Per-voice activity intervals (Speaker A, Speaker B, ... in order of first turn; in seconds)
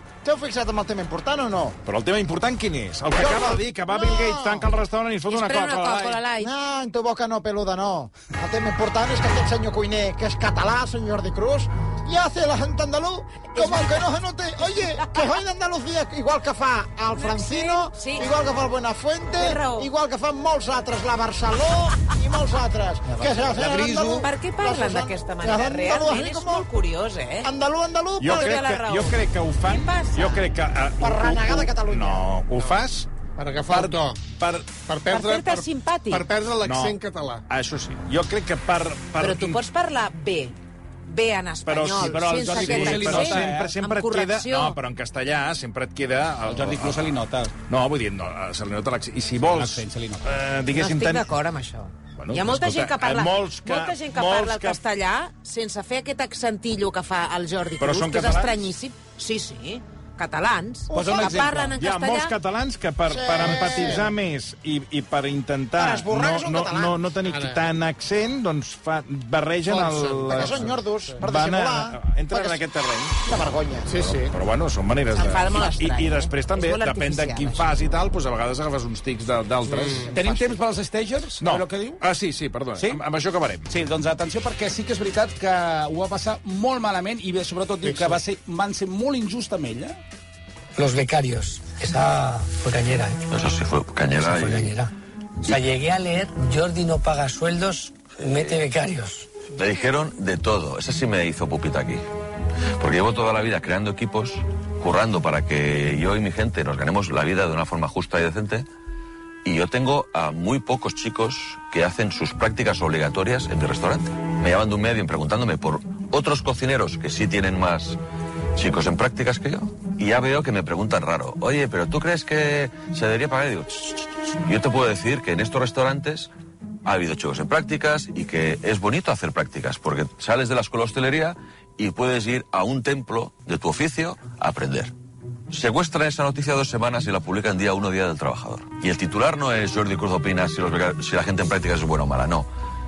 Speaker A: 0.2-1.8, 3.1-4.7, 6.4-26.7, 27.4-28.7, 31.0-32.3, 60.9-61.5, 63.1-64.1, 65.8-67.1, 69.7-72.0, 73.3-74.0
Speaker B: 1.9-6.3, 28.2-33.1, 33.7-34.8, 36.6-39.6, 41.6-47.1, 47.7-51.3, 52.1-54.8, 57.8-58.6, 61.2-73.2, 73.9-80.5, 81.4-83.7
Speaker C: 5.3-6.5, 13.6-14.0, 17.1-18.3, 19.4-19.9, 23.7-27.5, 28.2-30.4, 35.1-36.3, 39.2-44.8, 50.7-62.4, 75.1-77.8
Speaker D: 23.2-24.2, 42.0-43.7, 46.5-47.5, 49.5-50.5, 60.9-61.7, 80.1-82.0, 82.8-83.0, 83.7-90.0
Speaker E: 33.4-34.3, 34.8-37.5, 63.3-64.1, 67.2-67.7, 73.9-74.3, 79.6-80.1, 87.8-88.2
Speaker F: 90.8-93.2, 94.1-94.9, 95.4-99.3
Speaker G: 93.3-94.8, 98.3-98.6, 99.5-102.1, 102.8-108.7, 109.5-118.0, 118.5-126.3, 126.8-134.9, 135.5-142.5